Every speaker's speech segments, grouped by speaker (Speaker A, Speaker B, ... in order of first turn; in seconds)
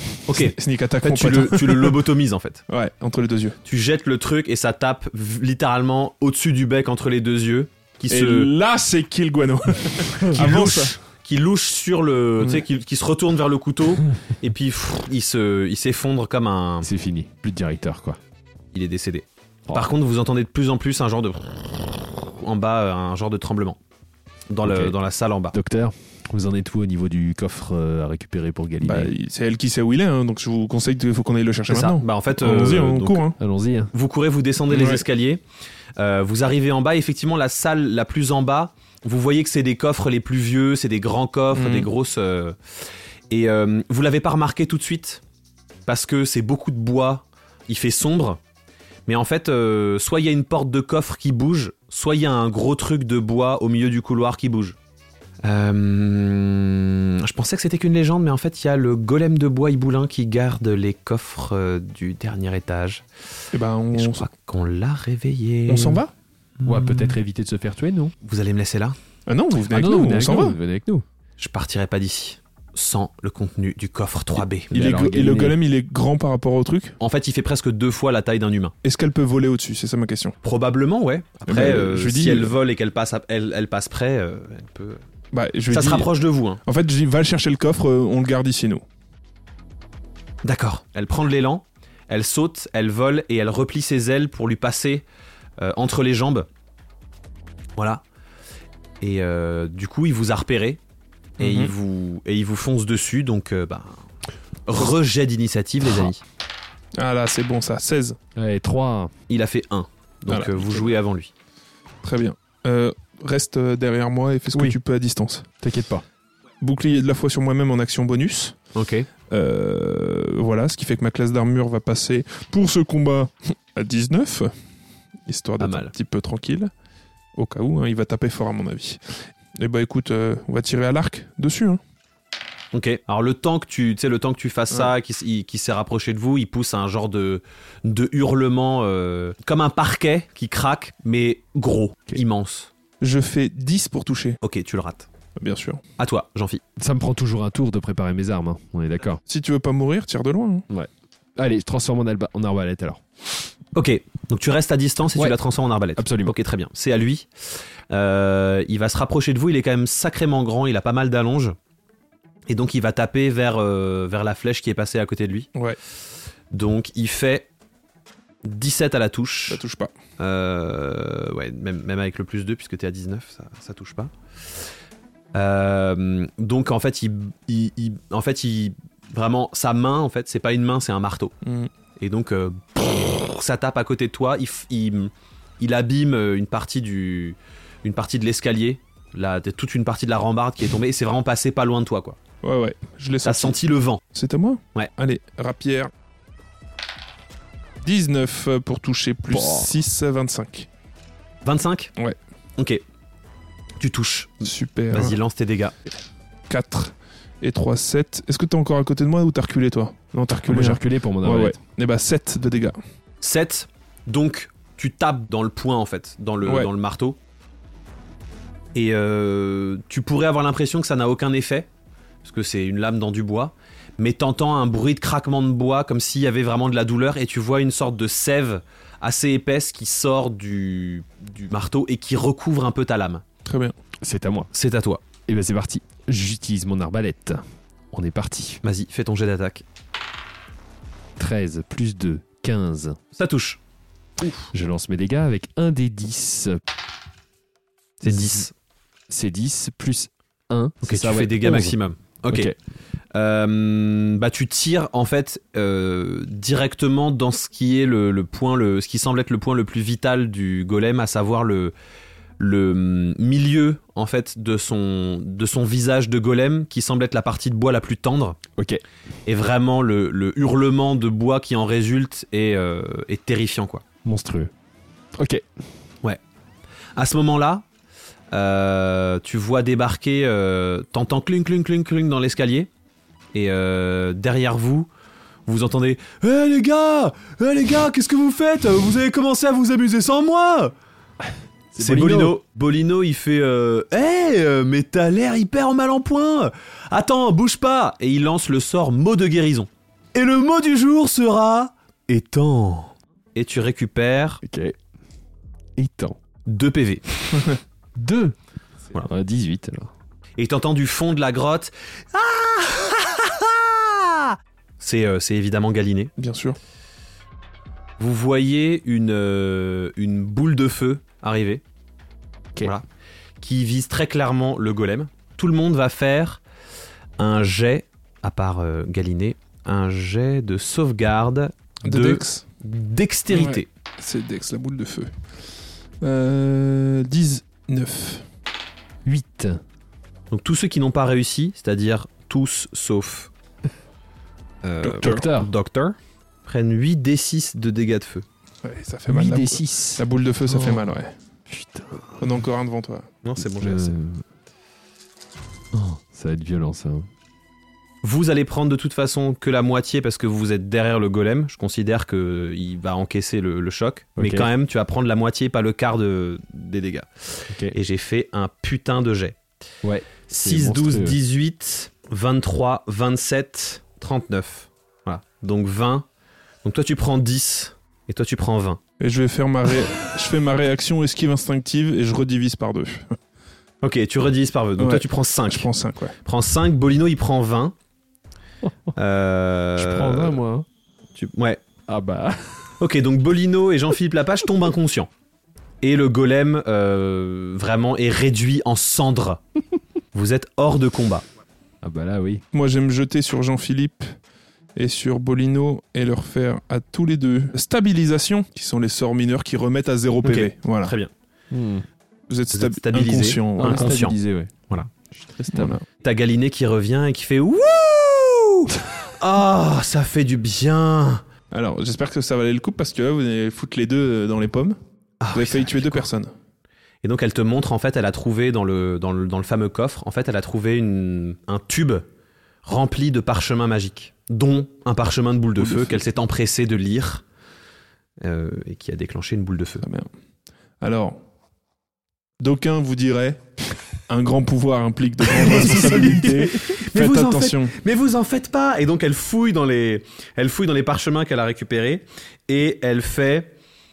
Speaker A: 0.3-2.6, 3.6-8.5, 10.3-16.9, 18.7-23.8, 24.5-25.5, 31.7-33.2, 33.9-35.4, 36.0-42.5, 43.3-45.2, 45.9-48.4, 49.0-54.8, 55.4-63.0, 63.9-66.0, 68.2-69.0, 71.4-74.7, 77.0-78.7, 80.4-85.0, 85.7-86.6, 90.4-95.0, 95.6-96.5, 97.8-98.0, 99.0-100.8, 101.4-104.0, 104.7-106.2, 109.3-111.3, 118.7-119.1, 125.6-125.9, 132.7-142.7, 144.4-145.1, 146.0-146.6, 153.7-157.3, 157.9-161.6, 162.5-165.5, 166.5-167.5, 168.4-169.6, 170.2-174.1, 175.3-181.3, 182.0-192.2, 193.2-194.0, 201.4-201.9, 203.8-205.7, 213.2-217.2, 218.7-221.7, 222.2-233.2, 234.5-235.0, 238.6-239.6, 243.1-243.6, 248.0-248.5, 250.8-252.5, 253.1-261.7, 262.4-268.4, 269.2-273.8, 276.9-277.6, 278.3-282.7, 283.3-284.9, 285.5-290.7, 291.8-304.4, 306.5-307.5, 310.4-316.1, 318.0-321.6, 322.6-322.9, 323.4-326.4, 327.2-333.7, 340.3-343.3, 344.6-348.2, 353.2-353.9, 358.0-369.4, 370.3-376.1, 376.6-378.8, 383.8-385.7, 386.2-387.7, 388.9-390.4, 391.1-391.6, 392.8-395.1, 395.8-399.4, 400.1-401.2, 410.2-411.1, 412.5-414.2, 416.0-421.2, 425.2-426.1, 427.0-432.1, 432.6-437.2, 438.2-439.9, 445.2-453.5
Speaker B: 0.3-2.0, 2.7-3.6, 8.1-10.9, 12.4-12.6, 28.8-33.4, 34.7-35.0, 41.5-41.9, 63.5-64.3, 65.7-66.1, 69.3-70.6, 74.7-77.0, 78.8-80.3, 81.5-82.5, 85.3-86.1, 86.6-88.8, 101.4-101.7, 107.0-108.2, 110.3-110.6, 112.0-115.5, 116.6-118.6, 119.3-124.5, 125.2-126.7, 127.3-129.0, 129.6-131.8, 143.0-144.4, 145.4-145.8, 149.3-150.6, 169.5-169.9, 181.4-181.7, 192.4-193.6, 194.1-195.9, 197.8-200.7, 204.4-205.2, 206.5-212.8, 216.4-216.7, 233.4-233.7, 316.2-316.6, 331.8-332.5, 333.3-335.1, 336.0-338.2, 344.8-345.2, 348.6-351.1, 352.2-353.1, 379.0-383.2, 384.8-386.1, 402.5-404.1, 404.8-410.9, 412.3-414.0, 415.4-415.9, 421.5-424.8, 425.3-426.3, 439.8-440.1, 440.8-441.2, 442.4-443.4, 444.1-447.8
Speaker C: 16.8-18.2, 24.6-24.9, 25.5-29.1, 33.4-33.9, 66.6-68.1, 69.7-71.0, 74.7-75.6, 108.3-109.1, 115.6-116.0, 146.8-149.2, 150.7-153.0, 156.0-156.3, 199.3-199.7, 210.4-211.6, 234.0-234.5, 235.3-238.6, 241.2-243.0, 244.5-246.6, 248.1-248.4, 249.1-251.8, 274.0-274.5, 275.1-275.4, 291.7-292.4, 304.4-304.7, 305.8-306.2, 307.9-308.3, 309.0-309.9, 339.1-339.6, 345.0-345.5, 349.1-350.9, 351.5-352.2, 353.6-354.2, 355.7-357.1, 364.2-364.5, 369.8-371.2, 389.8-390.6, 391.9-392.7, 401.8-402.4, 411.5-411.9, 413.6-414.5, 415.4-415.7, 445.4-446.4